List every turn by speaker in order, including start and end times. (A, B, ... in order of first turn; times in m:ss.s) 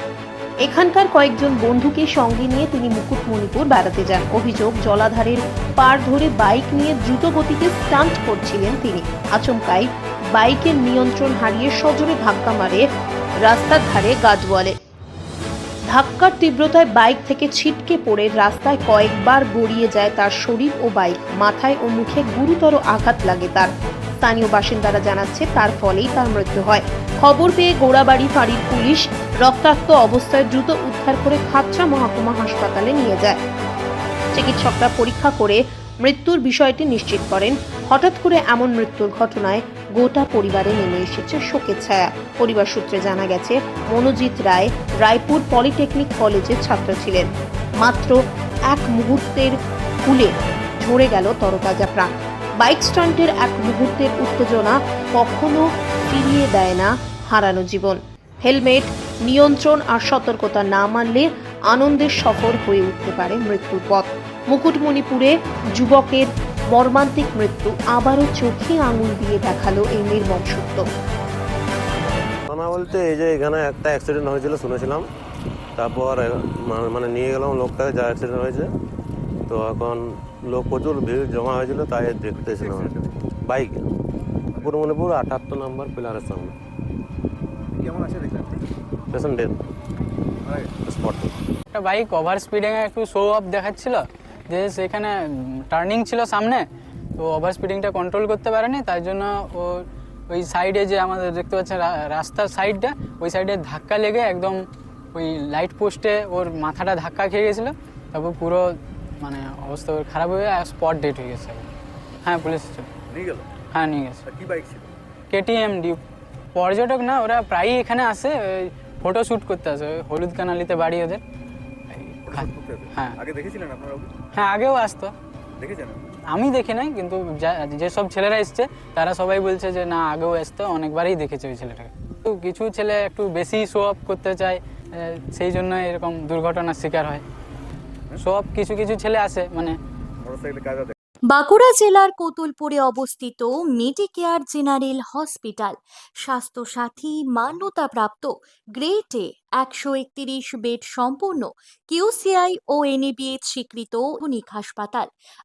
0:00.6-0:12.9 A
0:13.4-0:14.8 A
0:15.9-0:33.4 A
0:34.4-0:47.3 A
0:47.8-1:10.9 A
1:12.5-1:15.1 B
1:15.8-1:18.7 B
1:19.5-1:23.0 B
1:22.4-1:23.1 C
1:23.5-1:23.9 B
1:24.6-1:26.5 B
1:27.7-1:28.6 C
1:29.1-1:29.6 B
1:30.4-1:30.7 C
1:30.8-1:31.3 B
1:31.7-1:35.1 D
1:35.7-1:36.6 D
1:37.2-1:44.6 D
1:45.2-1:51.7 D
1:52.2-1:52.9 D
1:53.1-1:53.5 C
1:53.7-1:54.2 D
1:54.3-1:54.9 C
1:55.3-1:56.0 D
1:56.6-2:01.2 D
2:01.9-2:03.2 D
2:02.3-2:04.1 C
2:04.3-2:05.1 D
2:05.6-2:06.1 C
2:06.3-2:17.2 D
2:18.2-2:19.8 D
2:20.2-2:21.0 C
2:21.3-2:35.1 E